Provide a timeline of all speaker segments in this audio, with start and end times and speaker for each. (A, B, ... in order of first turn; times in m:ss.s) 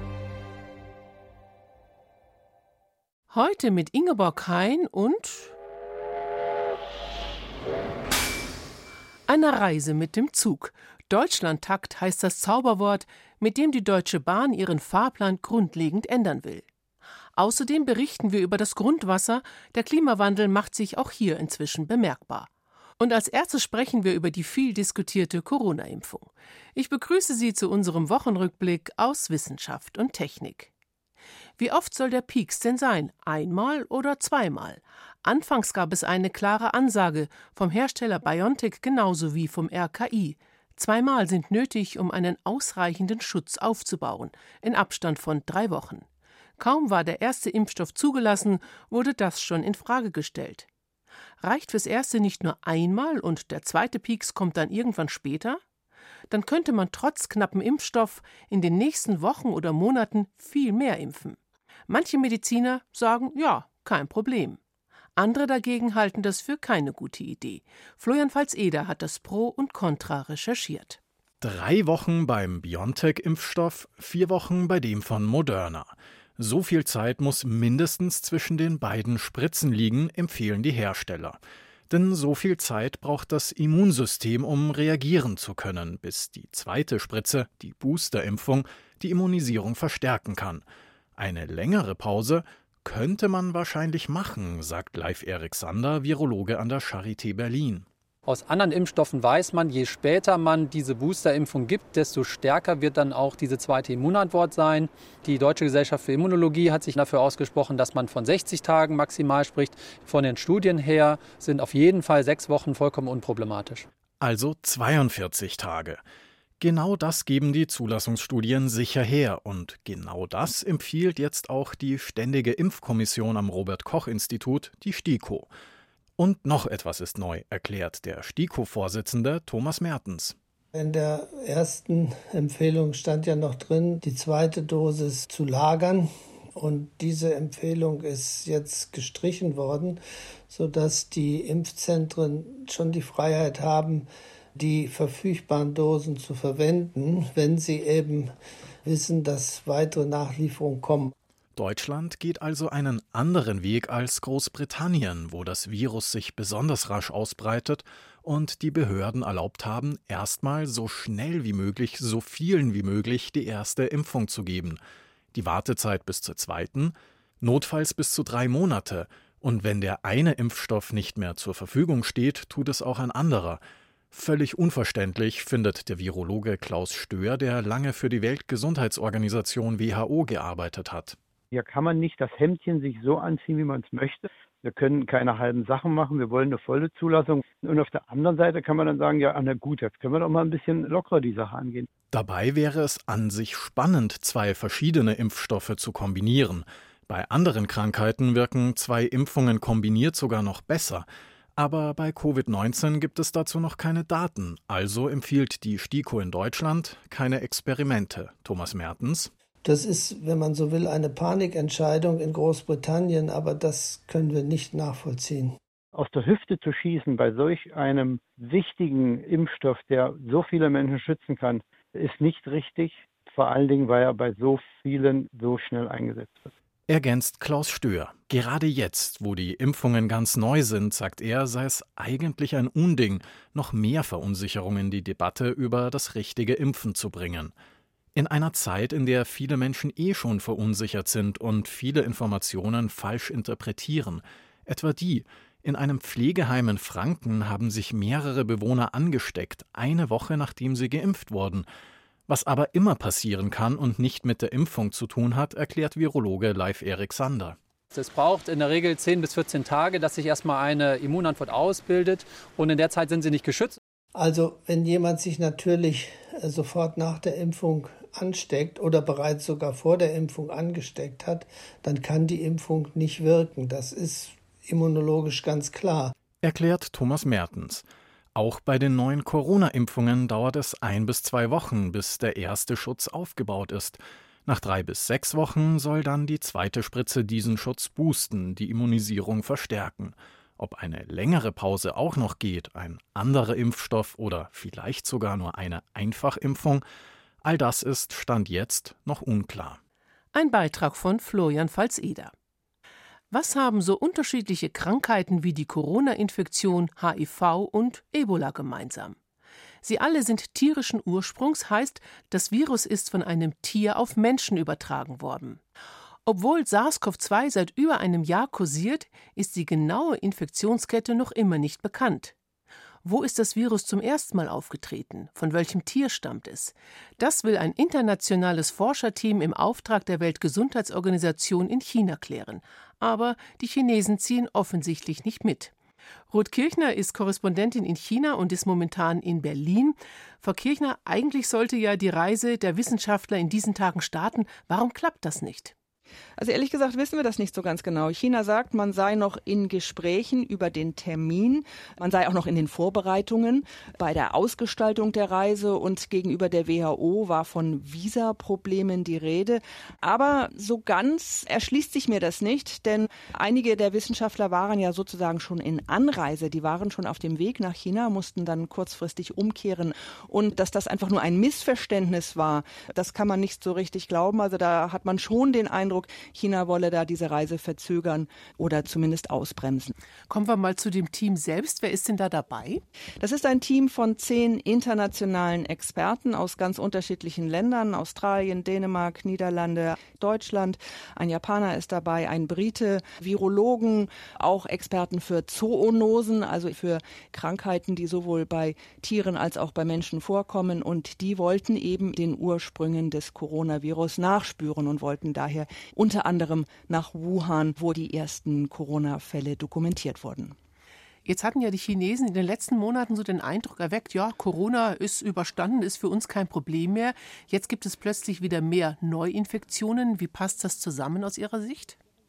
0:03.3-0:05.5 A
0:09.3-0:16.6 A
0:17.4-0:30.7 A
0:31.6-0:46.0 A
0:46.6-0:50.7 A
0:51.4-0:55.6 A
0:56.3-1:01.4 A
1:01.9-1:04.6 A
1:05.2-1:11.0 A
1:11.4-1:30.6 B
1:31.2-1:37.8 B
1:38.2-1:53.8 C
1:54.2-1:56.0 B
1:56.6-2:05.5 B
2:06.2-2:10.4 B
2:10.7-2:28.3 D
2:28.8-2:31.1 D
2:31.6-2:44.8 B
2:45.3-2:53.6 B
2:54.1-3:01.2 B
3:01.5-3:11.9 E
3:12.1-3:29.3 B
3:29.6-3:35.6 D
3:35.9-3:46.5 E
3:46.9-3:57.5 B
3:58.1-4:11.7 B
4:12.3-4:17.6 B
4:17.9-4:23.8 C
4:24.2-4:36.1 D
4:36.4-4:56.8 B
4:57.4-4:59.8 B
5:00.3-5:02.3 A
5:03.3-5:09.2 A
5:09.8-5:15.6 A
5:16.2-5:22.3 A
5:23.0-5:35.7 A
5:36.3-5:45.7 A
5:46.4-6:19.9 F
6:20.3-6:22.8 A
6:23.2-6:50.6 F
6:51.2-7:02.0 A